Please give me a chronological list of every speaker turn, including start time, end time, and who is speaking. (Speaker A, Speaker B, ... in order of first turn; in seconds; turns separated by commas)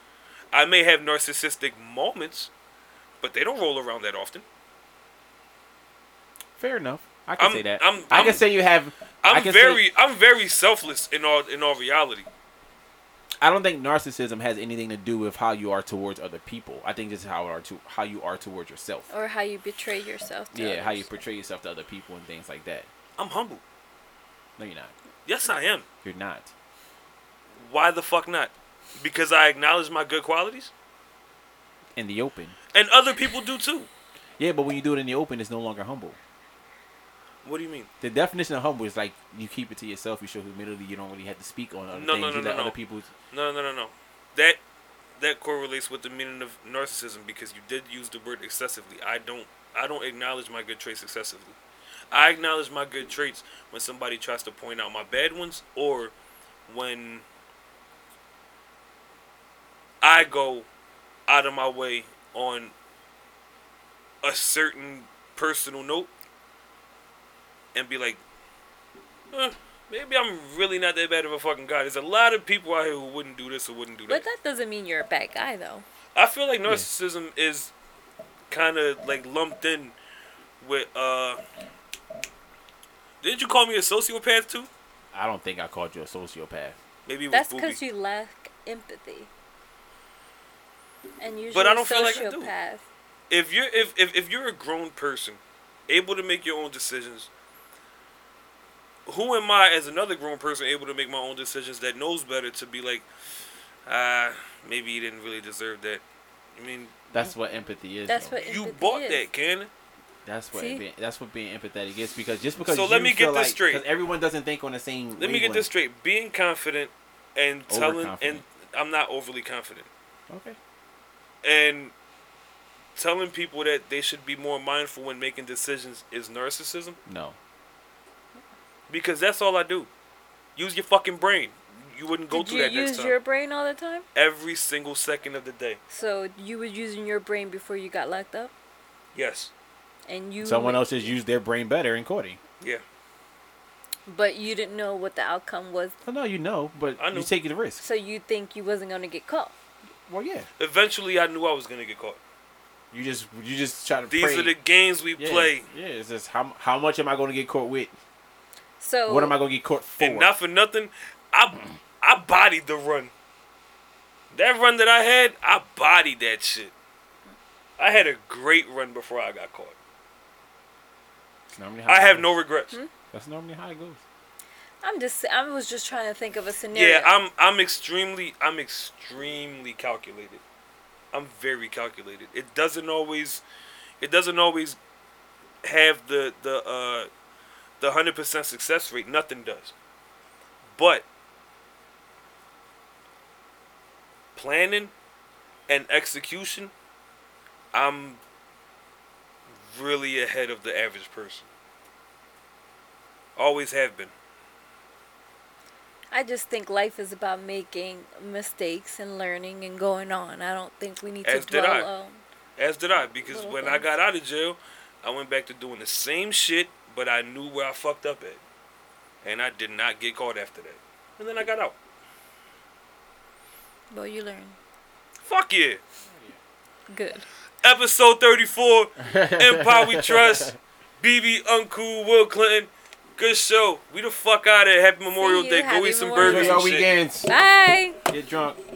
Speaker A: 0.5-2.5, Speaker A: 3.2-4.4, Speaker B: 6.6-9.8, Speaker A: 7.4-8.4, Speaker A: 9.2-12.3, Speaker B: 13.4-19.1, Speaker C: 19.1-21.1, Speaker B: 20.5-22.9, Speaker A: 23.2-23.6, Speaker B: 24.6-24.9, Speaker A: 25.2-25.8, Speaker B: 26.0-26.5, Speaker A: 27.6-30.7, Speaker B: 31.9-32.5, Speaker A: 32.7-33.9, Speaker B: 34.4-36.2, Speaker A: 37.4-37.9, Speaker B: 38.0-43.1, Speaker A: 41.9-42.8, Speaker A: 43.3-44.6, Speaker A: 45.2-51.5, Speaker A: 52.1-56.1, Speaker A: 56.7-57.2, Speaker A: 60.0-60.7, Speaker A: 61.3-62.7, Speaker A: 64.2-66.1, Speaker A: 67.7-68.2, Speaker A: 69.3-74.2, Speaker C: 74.1-75.8, Speaker A: 76.1-77.7, Speaker A: 78.5-80.0, Speaker A: 80.6-81.4, Speaker A: 83.2-84.7, Speaker B: 85.1-86.8, Speaker A: 87.0-87.8, Speaker C: 87.3-89.3, Speaker C: 91.2-92.8, Speaker A: 91.5-92.5, Speaker A: 93.3-97.3, Speaker A: 99.0-103.0, Speaker A: 103.9-106.0, Speaker A: 106.6-107.1, Speaker B: 107.1-108.4, Speaker C: 108.1-109.2, Speaker A: 108.4-109.7, Speaker B: 110.2-115.7, Speaker C: 110.5-110.8, Speaker A: 112.6-113.8, Speaker A: 115.2-119.9, Speaker B: 117.7-118.4, Speaker B: 120.3-120.6, Speaker A: 121.4-121.9, Speaker A: 123.0-127.0, Speaker B: 127.0-127.4, Speaker A: 128.9-129.9, Speaker A: 130.6-133.2, Speaker C: 132.3-134.0, Speaker A: 134.1-135.8, Speaker C: 135.9-138.5, Speaker A: 139.1-139.5, Speaker C: 140.1-141.0, Speaker B: 140.4-142.4, Speaker C: 144.1-145.9, Speaker B: 146.0-147.8, Speaker A: 147.0-147.3, Speaker C: 147.8-149.5, Speaker B: 150.1-150.5, Speaker A: 150.6-152.2, Speaker B: 152.9-154.5, Speaker A: 154.1-155.6, Speaker B: 155.2-157.9, Speaker C: 158.8-159.3, Speaker B: 159.1-160.3, Speaker A: 160.0-163.1, Speaker A: 164.3-166.7, Speaker A: 167.8-169.8, Speaker B: 171.5-172.3, Speaker A: 171.9-172.8, Speaker B: 173.1-174.0, Speaker C: 174.8-177.2, Speaker A: 176.7-180.4, Speaker A: 181.1-183.4, Speaker A: 184.0-184.8, Speaker A: 185.6-187.1, Speaker A: 187.8-189.7, Speaker A: 190.8-191.0, Speaker A: 194.3-194.9, Speaker A: 195.7-196.7, Speaker A: 197.7-198.2, Speaker A: 199.6-201.5, Speaker A: 203.4-204.1, Speaker C: 206.1-212.2, Speaker A: 211.2-211.9, Speaker A: 212.6-218.4, Speaker C: 213.3-213.8, Speaker A: 219.2-221.7, Speaker C: 223.9-224.6, Speaker A: 225.2-225.8, Speaker C: 226.9-227.2, Speaker A: 227.6-236.9, Speaker B: 229.0-230.5, Speaker C: 235.2-236.7, Speaker B: 236.2-237.3, Speaker C: 237.3-237.9, Speaker B: 238.1-238.6